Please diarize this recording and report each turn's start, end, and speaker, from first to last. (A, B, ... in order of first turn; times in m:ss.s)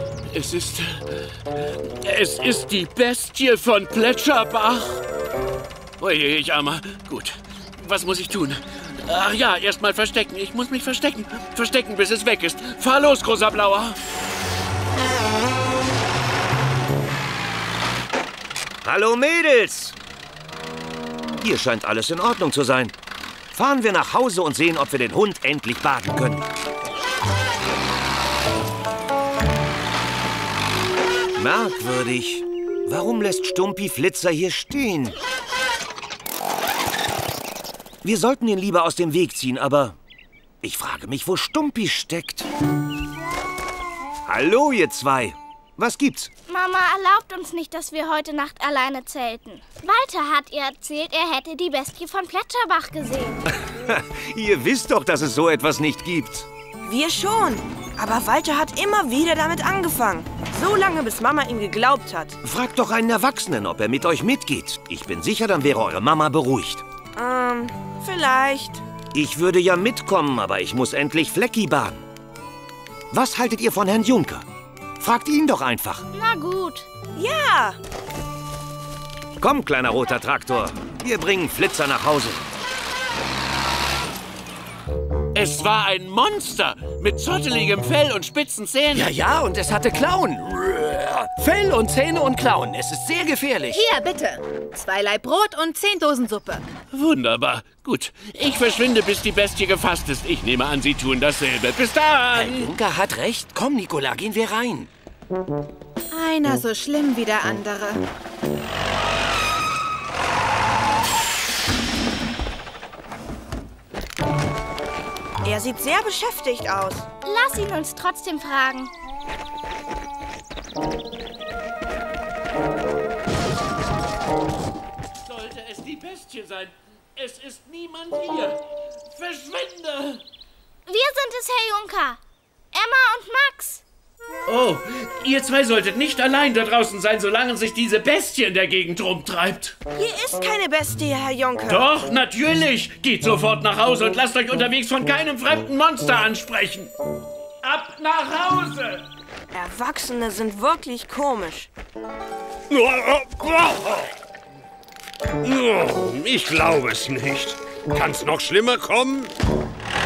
0:00.3-0:05.0 A
0:06.0-0:14.0 A
0:18.8-0:20.0 B
0:21.4-0:22.9 B
0:23.5-0:26.4 B
0:31.4-0:35.2 B
0:38.0-0:40.0 B
0:40.6-0:42.5 B
0:44.3-0:46.3 B
0:46.5-0:53.4 C
0:53.5-0:56.5 B
0:56.8-1:02.4 D
1:02.4-1:06.8 B
1:07.2-1:08.8 D
1:09.1-1:12.0 B
1:13.1-1:14.5 B
1:15.0-1:16.1 B
1:16.1-1:16.9 C
1:17.2-1:17.8 D
1:19.4-1:22.4 B
1:25.4-1:29.1 A
1:28.9-1:33.8 E
1:33.7-1:36.7 F
1:36.9-1:42.7 A
1:42.5-1:44.9 E
1:46.1-1:48.0 F
1:55.4-1:57.1 D
1:57.2-1:58.9 C
2:05.2-2:10.2 A
2:10.9-2:12.2 C
2:12.7-2:13.8 C
2:14.5-2:19.8 A
2:20.0-2:21.9 D
2:21.7-2:26.9 A
2:27.6-2:29.1 A
2:29.5-2:31.7 D
2:32.7-2:34.1 G
2:35.4-2:39.3 G